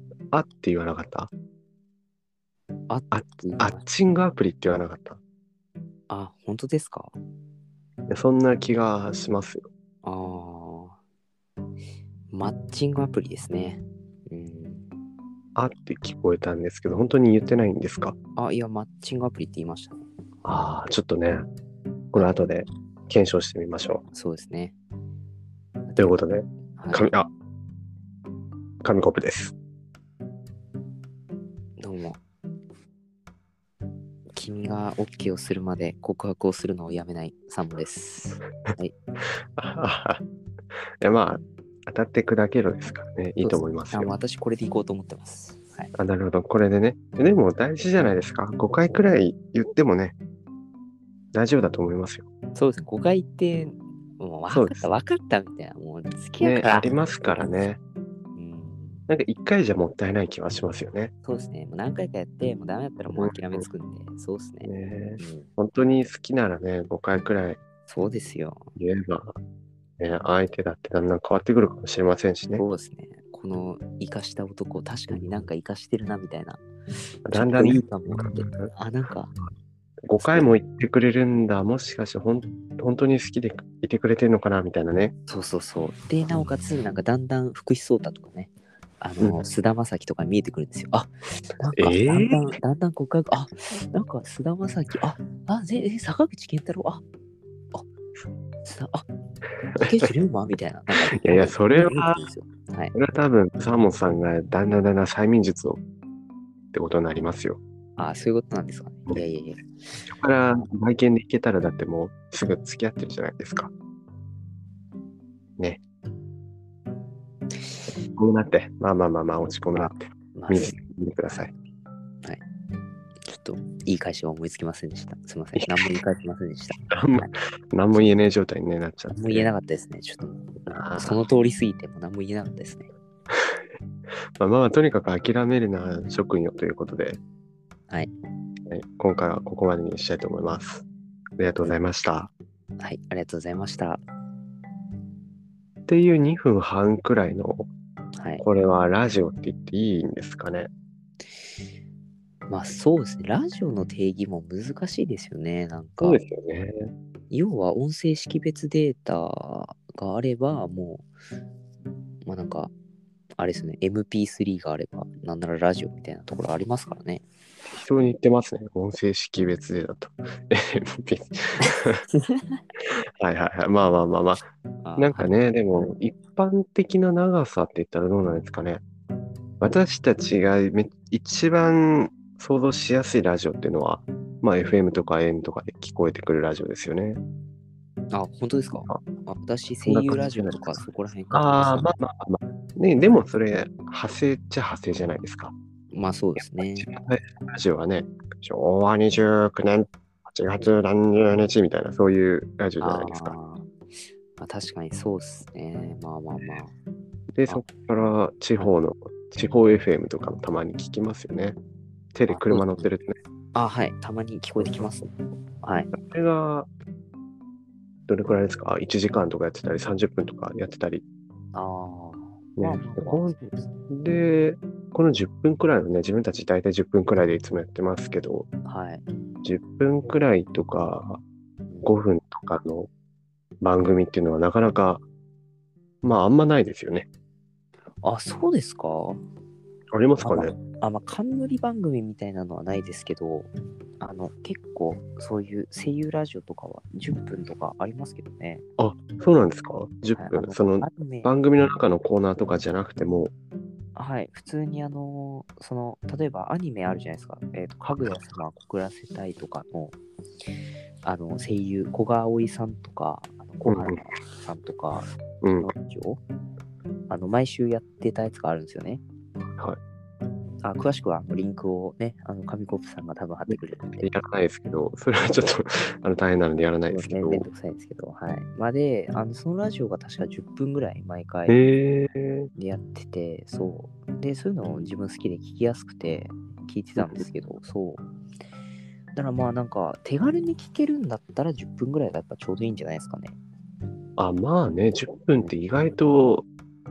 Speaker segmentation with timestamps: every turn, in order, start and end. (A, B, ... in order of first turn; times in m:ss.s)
0:00.3-0:01.3 A
0:02.9-0:03.9 B
0:03.1-0:05.2 A
0:06.1-0:07.1 B
0:08.1-0:09.7 A
0:10.0-0:11.0 B
0:12.3-0:14.9 B
0:15.6-0:18.1 A
0:18.4-0:20.0 B
0:20.4-0:21.4 A
0:22.1-0:24.0 A
0:24.1-0:24.8 B
0:25.9-0:26.2 B
0:26.0-0:27.3 A
0:26.8-0:27.1 B
0:28.8-0:29.5 A
0:31.8-0:32.2 B
0:34.3-0:38.9 B
0:39.6-0:40.2 A
0:41.0-0:44.2 A
0:43.4-0:45.9 B
0:45.9-0:50.2 A
0:51.3-0:52.2 A
0:52.5-0:57.6 B
0:54.5-0:54.9 A
0:56.4-0:57.8 A
0:58.3-0:59.0 B
0:59.1-1:01.1 A
1:01.2-1:05.5 B
1:03.2-1:03.6 A
1:04.6-1:07.6 A
1:07.9-1:08.6 B
1:08.8-1:09.3 A
1:10.0-1:12.6 A
1:12.5-1:16.6 B
1:17.2-1:18.7 A
1:17.3-1:19.3 B
1:20.0-1:25.1 A
1:20.2-1:20.5 B
1:25.3-1:37.0 B
1:31.8-1:32.5 A
1:38.6-1:39.0 B
1:39.7-1:40.1 A
1:39.8-1:42.9 B
1:40.9-1:42.2 A
1:42.9-1:45.8 A
1:46.7-1:47.6 A
1:48.0-1:50.1 B
1:50.1-1:53.7 A
1:57.6-1:57.9 B
1:58.2-2:01.5 A
2:00.3-2:00.8 B
2:03.2-2:07.3 B
2:06.9-2:09.5 A
2:09.1-2:12.9 B
2:10.7-2:11.2 A
2:14.4-2:17.2 A
2:18.7-2:20.8 A
2:21.4-2:22.3 A
2:22.8-2:24.0 B
2:25.9-2:27.7 A
2:28.2-2:28.4 B
2:28.4-2:30.7 A
2:32.5-2:36.2 B
2:36.0-2:36.7 A
2:37.3-2:41.0 B
2:42.2-2:42.7 B
2:43.4-2:47.2 B
2:47.7-2:52.0 A
2:51.6-2:52.6 B
2:53.2-2:54.4 A
2:54.8-2:55.3 B
2:55.0-2:58.8 A
2:59.6-3:07.2 A
3:08.1-3:11.9 B
3:09.8-3:10.8 A
3:11.3-3:15.5 A
3:15.9-3:16.9 B
3:16.4-3:23.4 A
3:22.8-3:23.7 B
3:24.4-3:26.7 B
3:27.3-3:31.6 A
3:32.1-3:33.2 A
3:32.3-3:32.9 B
3:33.5-3:35.1 B
3:34.6-3:35.0 A
3:35.6-3:35.9 B
3:35.9-3:36.7 A
3:38.1-3:41.0 A
3:41.5-3:43.6 B
3:42.6-3:48.5 A
3:48.6-3:49.0 B
3:49.4-3:51.2 A
3:51.8-3:52.9 A
3:53.6-3:55.0 A
3:56.0-3:57.1 A
3:58.0-3:59.2 B
3:59.9-4:00.6 A
4:00.2-4:03.5 B
4:04.0-4:08.6 B
4:08.8-4:13.3 A
4:10.2-4:11.3 B
4:13.9-4:20.0 B
4:21.0-4:26.2 B
4:23.6-4:24.0 A
4:25.4-4:25.7 A
4:27.1-4:29.0 B
4:30.6-4:34.1 B
4:33.5-4:37.5 A
4:36.9-4:41.6 B
4:41.5-4:42.5 A
4:42.5-4:48.0 B
4:47.0-4:47.2 A
4:49.1-4:53.4 B
4:54.2-4:56.5 A